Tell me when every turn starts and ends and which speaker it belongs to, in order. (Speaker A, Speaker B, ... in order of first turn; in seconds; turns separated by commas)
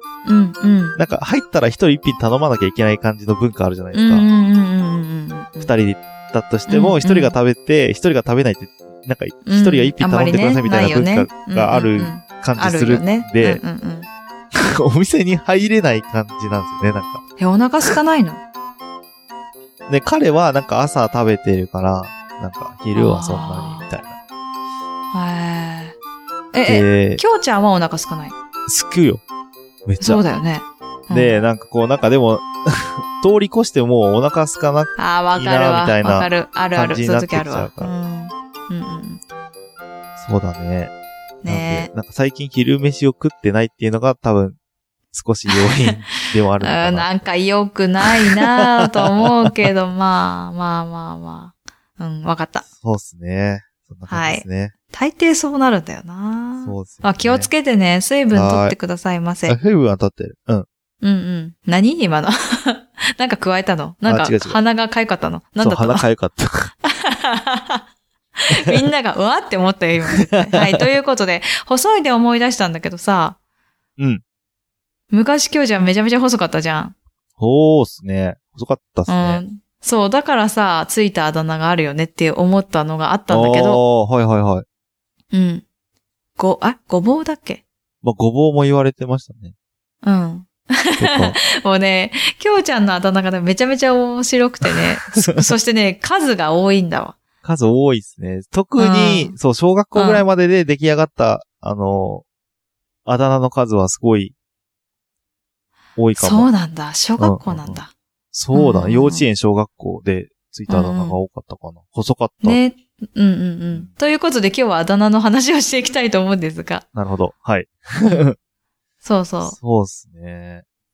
Speaker A: 0.3-1.0, Speaker B: 1.0-4.2, Speaker A: 3.9-5.7, Speaker B: 5.6-13.6, Speaker A: 6.7-7.3, Speaker A: 9.5-14.1, Speaker B: 14.6-17.2, Speaker A: 17.4-18.4, Speaker B: 19.9-24.2, Speaker A: 22.9-23.9, Speaker A: 25.1-26.0, Speaker A: 26.5-28.4, Speaker B: 26.6-27.2, Speaker B: 28.7-29.2, Speaker B: 29.9-30.2, Speaker A: 30.0-31.4, Speaker B: 31.1-37.9, Speaker A: 35.0-39.2, Speaker B: 40.2-40.9, Speaker A: 41.4-41.9, Speaker B: 41.5-44.6, Speaker B: 45.1-47.2, Speaker A: 45.6-46.0, Speaker A: 46.6-52.7, Speaker B: 48.2-48.5, Speaker B: 52.8-54.7, Speaker A: 54.1-59.6, Speaker B: 56.6-57.5, Speaker B: 58.3-58.8, Speaker B: 59.5-60.7, Speaker A: 61.0-66.0, Speaker B: 64.0-64.6, Speaker B: 65.6-66.7, Speaker A: 66.9-67.8, Speaker A: 68.4-73.4, Speaker B: 68.5-68.8, Speaker B: 70.1-70.8, Speaker A: 75.1-77.0, Speaker B: 77.4-79.4, Speaker A: 79.1-83.8, Speaker B: 83.3-84.7, Speaker A: 85.3-85.7, Speaker A: 86.4-87.6, Speaker B: 88.0-89.5, Speaker A: 90.0-97.2, Speaker B: 91.0-91.4, Speaker B: 97.4-102.2, Speaker A: 98.8-99.3, Speaker A: 100.0-100.2, Speaker B: 103.1-104.3, Speaker B: 106.0-106.5, Speaker A: 106.2-107.9, Speaker B: 107.2-107.8, Speaker B: 108.3-112.6, Speaker A: 108.5-109.3, Speaker A: 110.7-111.2, Speaker A: 112.4-116.9, Speaker B: 116.9-118.3, Speaker A: 119.0-119.6, Speaker B: 119.4-120.6